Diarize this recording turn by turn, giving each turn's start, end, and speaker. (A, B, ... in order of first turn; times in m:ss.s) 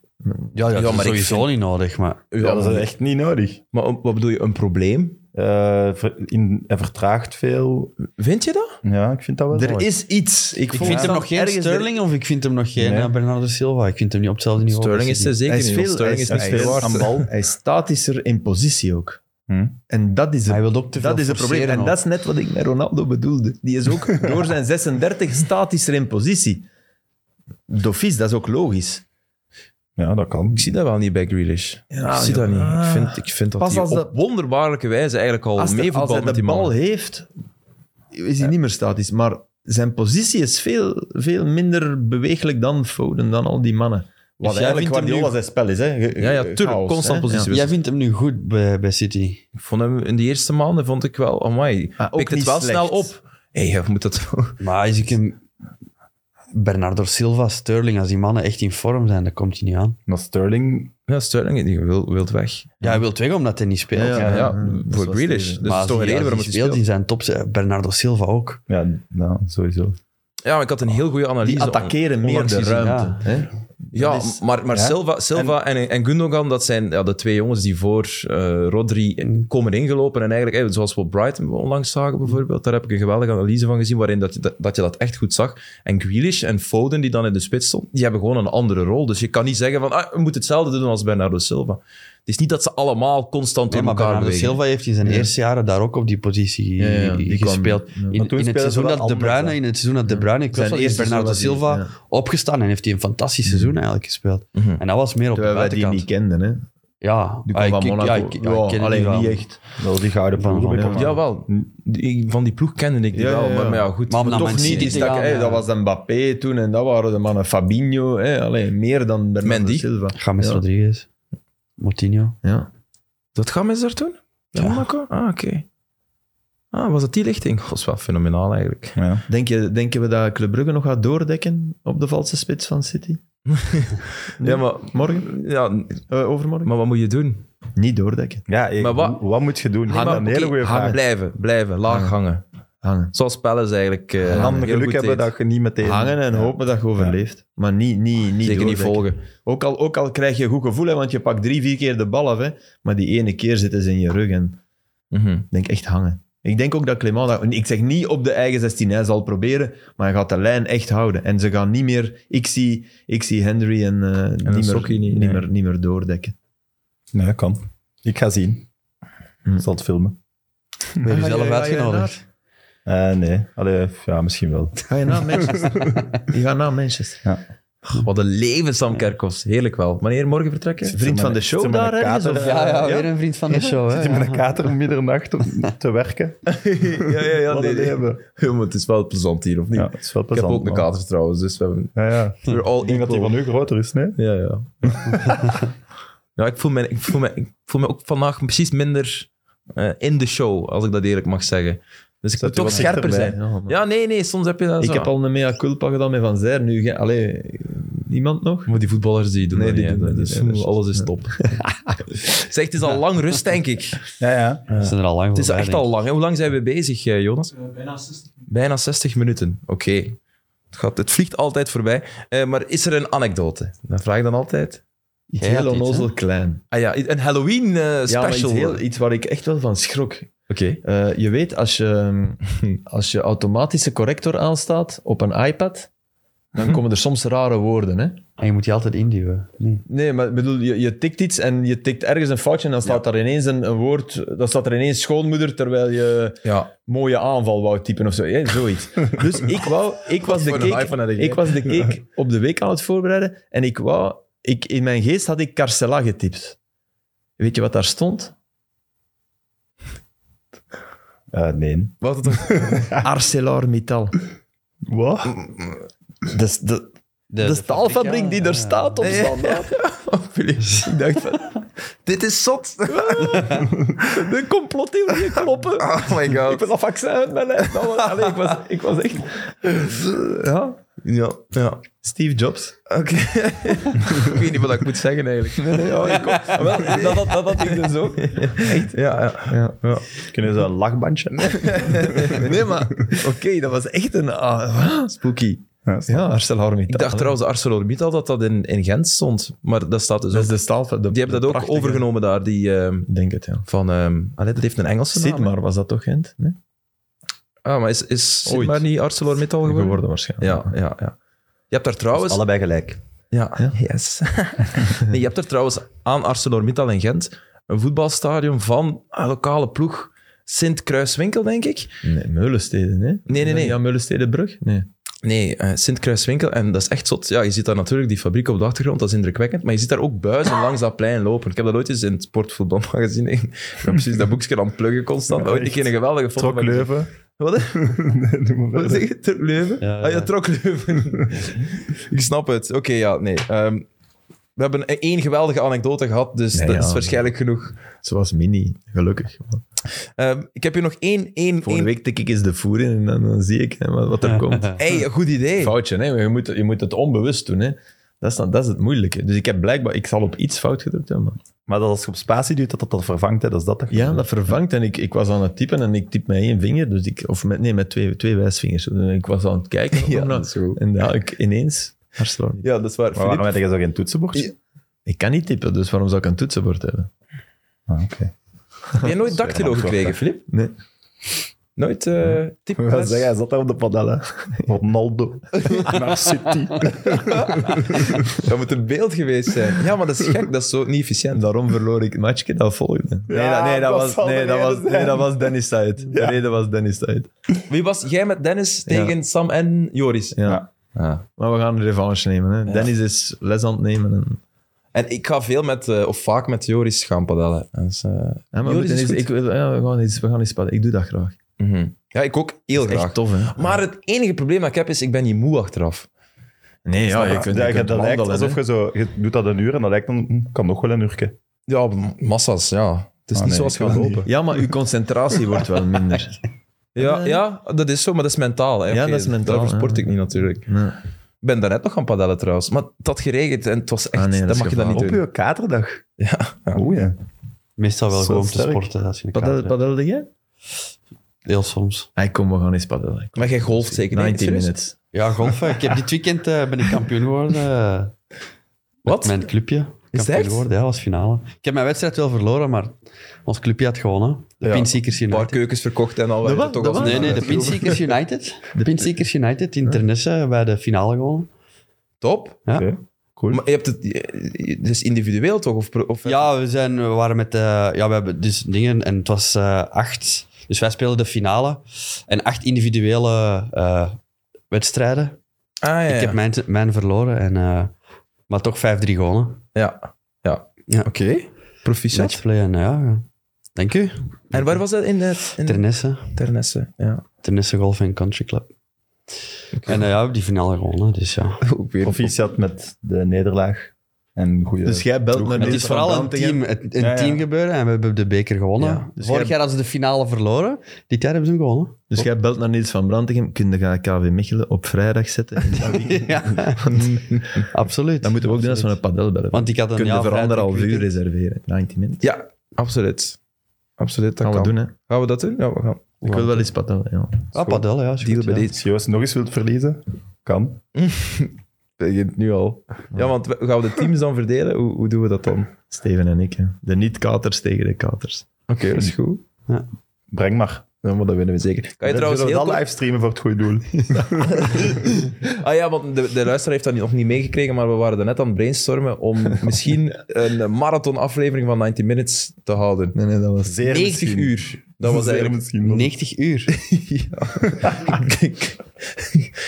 0:00.2-0:00.5 A
0:00.5-0:02.2 B
0:00.7-0:01.5 C
0:02.3-0:02.9 C
0:02.4-0:03.6 D
0:03.7-0:05.2 C
0:05.3-0:08.0 D
0:08.1-0:08.8 C
0:08.8-0:09.9 D
0:09.5-0:11.9 A
0:10.7-0:15.4 B
0:10.8-0:11.1 C
0:12.8-0:13.1 D
0:14.6-0:17.1 C
0:15.5-0:19.2 A
0:16.3-0:17.3 D
0:19.5-0:19.8 D
0:19.9-0:26.6 A
0:20.5-0:22.0 B
0:27.7-0:29.0 A
0:30.0-0:30.7 D
0:30.5-0:36.7 C
0:31.9-0:34.2 A
0:35.6-0:37.3 A
0:38.1-0:47.5 A
0:44.4-0:45.3 C
0:46.2-0:47.7 C
0:47.5-0:49.4 B
0:49.6-0:54.6 C
0:52.0-0:53.1 A
0:54.6-0:55.4 B
0:56.5-1:00.0 B
1:00.1-1:00.9 D
1:01.1-1:02.7 C
1:02.8-1:04.4 B
1:03.9-1:05.8 A
1:04.1-1:06.8 C
1:04.2-1:04.5 D
1:05.6-1:08.6 B
1:08.7-1:10.0 D
1:10.4-1:13.0 C
1:11.4-1:14.4 A
1:12.8-1:13.3 B
1:13.9-1:34.6 C
1:14.7-1:15.0 D
1:33.7-1:46.1 B
1:35.0-1:35.3 A
1:36.8-1:38.2 A
1:38.1-1:39.6 D
1:40.1-1:41.9 A
1:43.5-1:43.7 A
1:44.5-1:44.8 C
1:45.3-1:46.6 A
1:47.0-1:49.4 B
1:47.5-1:49.6 A
1:49.8-1:51.6 D
1:50.4-1:51.0 B
1:50.7-1:51.0 A
1:50.9-1:55.1 C
1:53.1-2:00.6 A
1:54.1-1:55.6 B
1:59.4-1:59.9 C
2:00.1-2:01.1 B
2:01.8-2:02.4 B
2:02.4-2:02.7 A
2:03.3-2:05.6 C
2:04.6-2:04.8 B
2:06.7-2:09.0 C
2:09.0-2:09.2 D
2:09.3-2:13.2 A
2:13.5-2:16.0 C
2:14.4-2:15.3 A
2:16.1-2:16.7 A
2:16.6-2:17.4 C
2:17.7-2:18.4 A
2:18.5-2:21.0 D
2:18.8-2:19.2 C
2:19.9-2:21.0 A
2:19.9-2:22.4 C
2:21.9-2:22.1 A
2:22.8-2:23.1 A
2:23.1-2:25.3 C
2:24.2-2:24.6 A
2:24.3-2:27.2 D
2:25.8-2:34.6 A
2:28.4-2:29.2 C
2:35.1-2:35.5 C
2:35.5-2:46.3 A
2:44.4-2:45.4 C
2:47.1-2:48.7 D
2:49.6-2:50.2 D
2:51.0-2:52.2 B
2:51.0-2:52.2 A
2:52.8-2:54.8 D
2:54.9-2:57.2 A
2:55.4-2:55.7 D
2:57.9-3:01.0 C
3:00.9-3:03.1 A
3:00.9-3:03.0 D
3:02.4-3:04.5 B
3:03.7-3:08.2 D
3:06.5-3:13.3 C
3:09.7-3:10.9 D
3:11.9-3:14.2 D
3:14.2-3:15.6 C
3:16.4-3:25.1 C
3:22.4-3:23.4 D
3:22.6-3:23.8 A
3:24.8-3:28.7 A
3:28.7-3:31.6 C
3:29.5-3:32.2 A
3:32.3-3:34.0 C
3:34.2-3:34.6 D
3:34.7-3:40.2 C
3:34.8-3:35.9 B
3:40.7-3:44.8 C
3:45.3-3:46.6 A
3:45.4-3:46.1 B
3:46.7-3:48.8 C
3:48.1-3:50.3 A
3:50.5-3:50.8 C
3:50.8-3:55.9 A
3:56.5-3:58.2 A
3:58.4-3:59.8 B
3:59.9-4:16.6 A
4:06.4-4:06.7 C
4:10.2-4:11.7 C
4:17.4-4:18.3 A
4:21.3-4:23.0 D
4:22.0-4:22.9 C
4:23.0-4:24.2 A
4:24.9-4:25.4 D
4:25.3-4:25.8 C
4:26.2-4:29.8 A
4:27.3-4:29.2 B
4:29.0-4:30.9 C
4:30.5-4:31.6 A
4:32.0-4:33.7 C
4:32.9-4:40.8 A
4:35.3-4:36.7 C
4:37.8-4:38.4 C
4:41.0-4:41.9 C
4:42.0-4:42.8 A
4:42.9-4:50.1 C
4:45.6-4:48.9 A
4:49.5-4:49.8 A
4:50.3-4:52.3 D
4:51.5-4:52.5 C
4:51.8-4:57.4 A
4:55.8-4:56.3 D
4:56.9-5:00.6 C
5:00.3-5:02.1 A
5:01.1-5:03.1 C
5:03.1-5:03.6 A
5:03.6-5:05.5 C
5:05.1-5:06.6 A
5:07.6-5:11.2 C
5:08.4-5:08.8 A
5:09.6-5:10.7 A
5:11.7-5:12.4 C
5:12.1-5:13.0 D
5:13.3-5:22.0 C
5:22.0-5:24.9 A
5:23.3-5:23.8 C
5:25.2-5:38.0 C
5:35.3-5:37.1 D
5:37.8-5:39.0 D
5:38.7-5:43.8 C
5:39.8-5:40.3 B
5:44.6-5:47.8 C
5:46.5-5:47.2 A
5:48.0-5:49.6 A
5:50.2-5:51.9 C
5:51.6-5:55.0 A
5:54.3-5:54.7 B
5:54.7-5:55.7 C
5:55.6-6:01.4 A
6:01.7-6:04.2 D
6:03.9-6:12.6 A
6:09.9-6:10.8 C
6:12.6-6:13.5 C
6:13.1-6:14.5 D
6:15.0-6:17.1 A
6:17.9-6:18.3 D
6:19.0-6:20.4 C
6:19.2-6:20.1 D
6:21.8-6:23.3 C
6:22.2-6:28.2 D
6:25.6-6:26.0 C
6:27.1-6:31.4 C
6:31.3-6:37.3 A
6:33.3-6:35.5 D
6:36.1-6:36.4 D
6:37.7-6:41.2 C
6:38.9-6:39.1 A
6:40.3-6:40.6 A
6:41.4-6:44.4 A
6:44.9-6:49.2 C
6:48.5-6:51.4 A
6:51.6-6:56.1 C
6:52.8-6:53.8 A
6:56.8-6:58.6 A
6:57.1-7:01.3 D
7:01.7-7:04.3 C
7:03.3-7:04.3 D
7:04.0-7:06.4 A
7:07.0-7:07.4 A
7:07.0-7:10.7 C
7:08.9-7:10.1 A
7:10.6-7:11.0 A
7:11.4-7:15.2 C
7:14.1-7:15.1 A
7:14.9-7:16.0 D
7:16.2-7:16.8 C
7:16.7-7:17.2 D
7:17.8-7:19.7 B
7:18.1-7:18.8 D
7:19.3-7:20.3 A
7:21.4-7:22.1 B
7:22.2-7:24.9 A
7:23.4-7:24.7 C
7:25.1-7:28.1 B
7:29.0-7:29.5 C
7:29.0-7:35.6 B
7:30.1-7:30.6 C
7:35.3-7:37.8 C
7:36.4-7:38.0 A
7:37.0-7:41.5 B
7:38.7-7:39.1 A
7:42.2-7:42.6 C
7:42.7-7:43.6 D
7:43.5-7:46.5 C
7:46.2-7:54.2 B
7:54.7-7:55.4 B
7:55.8-7:56.4 C
7:56.1-7:57.9 B
7:58.5-7:59.6 B
7:59.7-8:02.4 C
8:02.1-8:03.2 B
8:03.8-8:04.8 B
8:04.5-8:07.2 C
8:05.6-8:06.3 B
8:07.4-8:08.7 B
8:09.7-8:10.0 C
8:09.8-8:11.6 B
8:11.6-8:12.4 C
8:12.0-8:15.9 D
8:14.8-8:16.6 A
8:15.6-8:22.0 B
8:17.0-8:17.4 D
8:18.8-8:19.0 C
8:19.2-8:19.5 A
8:22.1-8:27.2 A
8:25.9-8:27.0 B
8:26.9-8:27.6 C
8:27.7-8:29.0 B
8:28.2-8:32.2 A
8:29.5-8:31.1 B
8:32.2-8:33.4 C
8:34.0-8:36.6 C
8:34.4-8:34.9 A
8:36.2-8:37.4 A
8:37.5-8:38.7 B
8:37.5-8:37.8 D
8:38.2-8:38.8 C
8:38.7-8:40.8 D
8:40.9-8:45.7 C
8:45.9-8:48.5 A
8:48.7-8:49.4 C
8:50.3-8:50.8 D
8:51.0-8:52.8 C
8:52.0-8:54.8 D
8:54.0-8:55.3 A
8:54.6-9:03.2 C
9:03.1-9:03.8 A
9:03.6-9:06.1 D
9:03.8-9:05.6 C
9:05.8-9:06.7 B
9:06.7-9:09.5 C
9:07.6-9:08.1 D